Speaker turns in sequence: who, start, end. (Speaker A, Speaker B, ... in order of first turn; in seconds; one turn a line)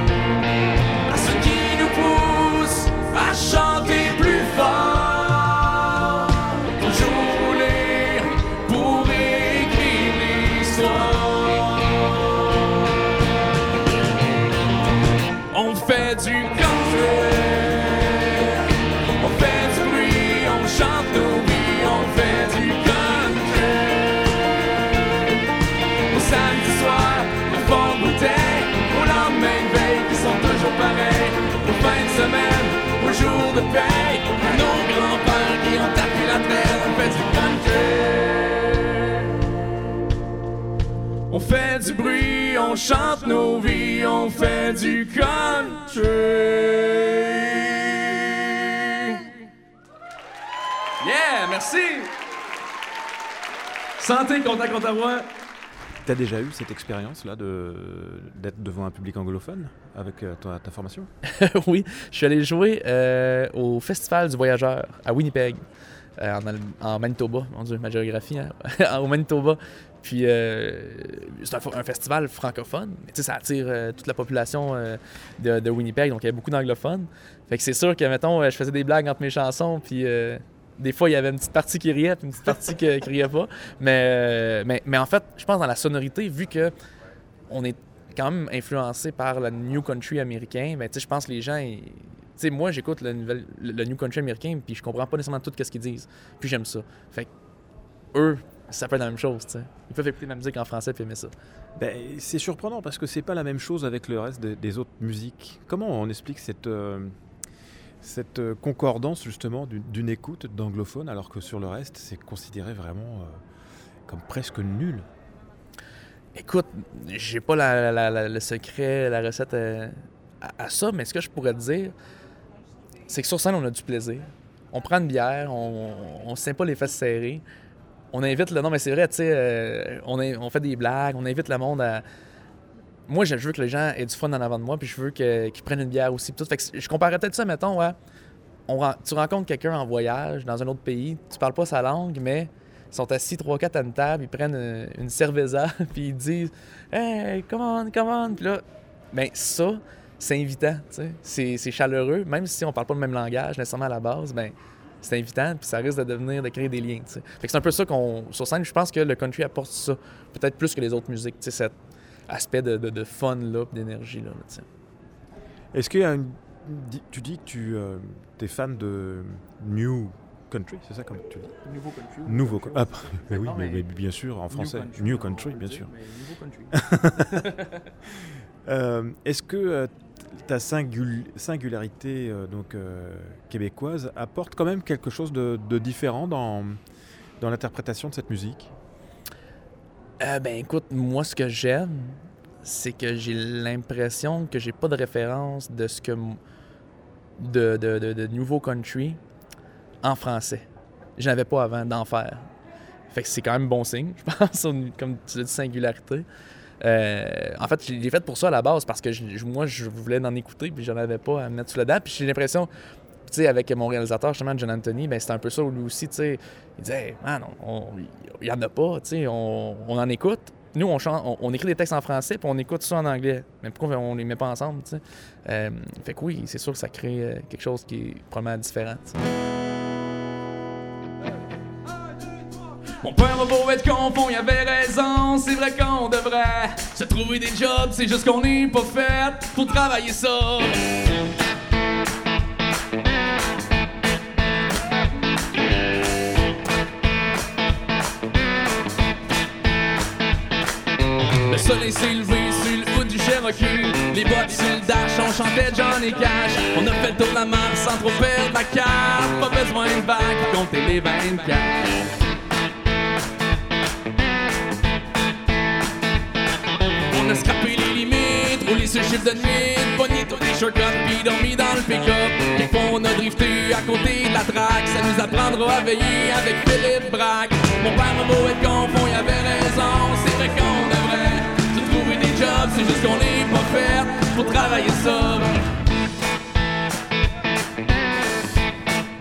Speaker A: 1.1-12.5
Speaker A: 15.5-18.7
Speaker A: 19.2-24.5
Speaker A: 26.1-39.2
Speaker A: 41.3-49.3
Speaker A: 51.0-52.1
Speaker A: 54.0-55.3
Speaker B: 56.0-61.1
Speaker C: 61.2-65.6
Speaker C: 66.2-86.7
Speaker C: 87.5-97.3
Speaker C: 98.1-101.3
Speaker B: 101.8-107.1
Speaker B: 108.0-113.4
Speaker B: 114.1-115.0
Speaker C: 116.3-121.9
Speaker C: 123.1-127.4
Speaker C: 128.1-132.0
Speaker C: 133.1-137.9
Speaker C: 138.7-161.7
Speaker C: 162.3-164.7
Speaker B: 165.7-171.6
Speaker C: 171.7-172.8
Speaker B: 172.2-175.9
Speaker C: 173.3-173.8
Speaker C: 174.5-176.7
Speaker B: 176.7-177.5
Speaker B: 178.1-186.8
Speaker B: 187.4-188.7
Speaker C: 190.2-196.4
Speaker C: 197.4-199.2
Speaker C: 200.0-200.7
Speaker C: 201.2-202.4
Speaker C: 203.1-206.2
Speaker C: 206.8-212.7
Speaker C: 213.3-229.2
Speaker A: 233.0-240.8
Speaker A: 251.5-261.9
Speaker A: 267.1-285.6